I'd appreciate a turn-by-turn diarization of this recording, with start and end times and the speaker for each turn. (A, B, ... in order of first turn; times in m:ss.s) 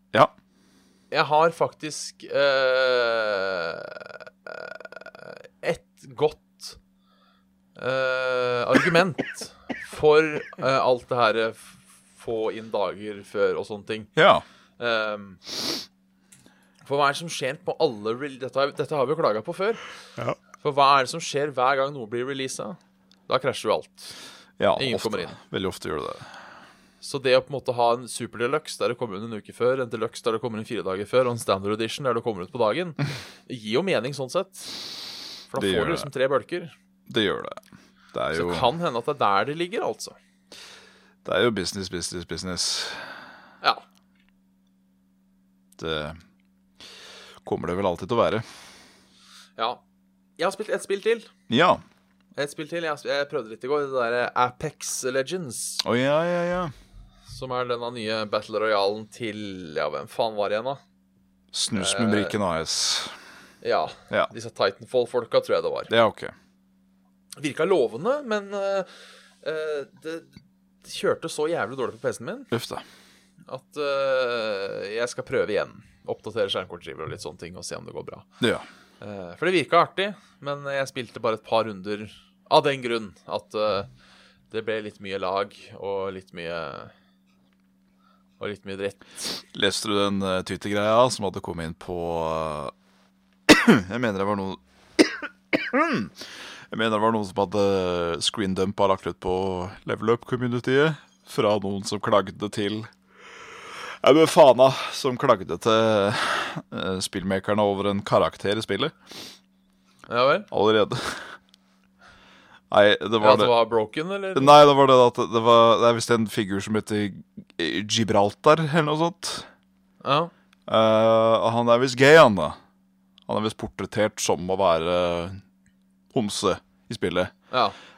0:01.1-0:06.8 A
0:07.8-0:14.1 A
0:14.2-0:14.4 B
0:14.8-0:15.4 A
0:16.8-0:19.8 A
0:20.6-0:24.1 A
0:24.6-0:26.3 B
0:24.8-0:25.4 A
0:27.0-0:34.8 A
0:35.5-0:36.7 A
0:35.6-0:36.1 B
0:37.1-0:37.6 B
0:38.1-0:38.7 B
0:38.3-0:40.2 A
0:41.2-0:43.1 B
0:45.8-0:46.2 B
0:47.4-0:48.4 B
0:49.6-0:49.8 A
0:50.4-0:51.3 A
0:51.5-0:51.8 B
0:52.4-0:55.8 A
0:55.8-0:56.7 B
0:57.3-1:00.8 A
1:01.5-1:03.1 B
1:01.7-1:02.4 A
1:03.6-1:05.9 A
1:05.9-1:06.3 B
1:07.4-1:10.3 A
1:10.8-1:12.5 A
1:12.5-1:12.8 B
1:13.5-1:18.3 A
1:18.4-1:18.6 B
1:19.0-1:23.9 A
1:24.5-1:26.9 A
1:28.4-1:29.3 A
1:29.5-1:32.7 B
1:33.5-1:42.9 B
1:43.5-1:49.0 B
1:50.1-1:50.5 A
1:50.5-1:51.3 B
1:52.7-1:53.5 B
1:53.2-1:54.6 A
1:54.3-1:59.5 B
2:00.0-2:00.3 A
2:00.7-2:02.6 B
2:03.3-2:05.4 B
2:06.1-2:07.3 B
2:07.5-2:07.8 A